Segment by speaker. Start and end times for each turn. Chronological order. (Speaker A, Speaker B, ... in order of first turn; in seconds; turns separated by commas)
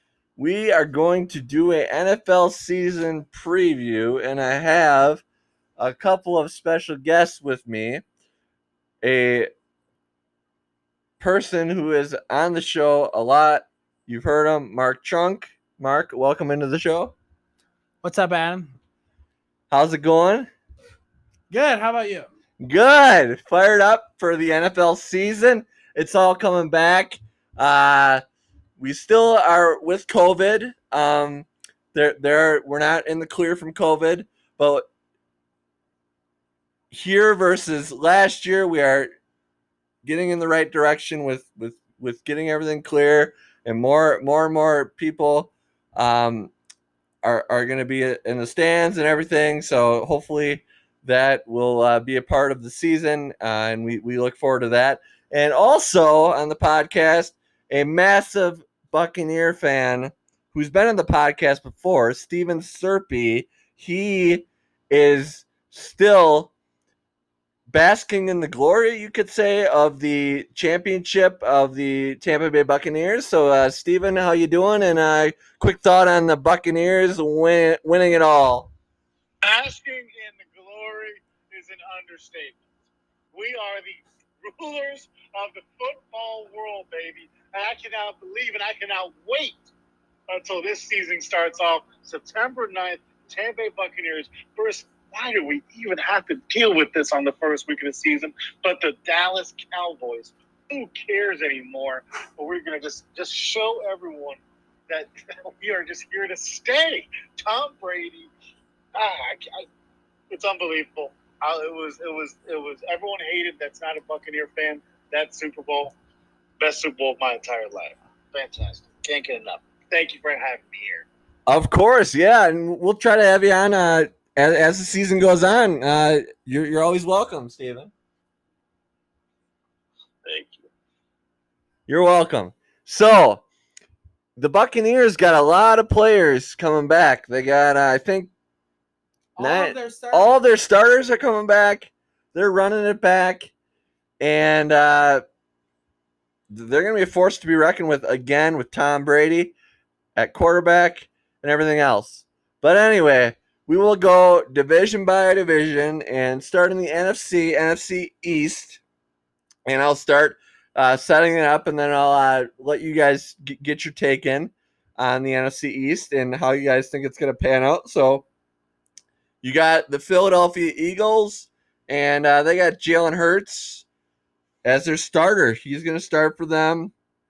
Speaker A: 0.4-5.2, Speaker A: 5.8-8.0, Speaker A: 9.0-9.5, Speaker A: 11.2-17.1, Speaker B: 18.0-18.7, Speaker A: 19.7-20.5, Speaker B: 21.5-22.3, Speaker A: 22.6-28.2, Speaker A: 28.8-34.9, Speaker A: 36.9-39.1, Speaker A: 40.0-46.5, Speaker A: 47.2-66.5, Speaker A: 67.7-78.7, Speaker C: 79.4-82.7, Speaker C: 83.3-89.7, Speaker C: 90.3-108.3, Speaker C: 108.9-109.7, Speaker C: 110.3-116.0, Speaker C: 116.6-121.1, Speaker A: 121.5-127.9, Speaker C: 130.2-130.7, Speaker A: 131.9-133.4, Speaker A: 134.4-138.3, Speaker B: 139.4-140.4, Speaker A: 139.4-143.5, Speaker A: 144.2-145.2, Speaker A: 146.5-149.6, Speaker A: 150.2-158.8, Speaker A: 159.7-168.2, Speaker A: 169.4-173.8, Speaker A: 174.6-176.9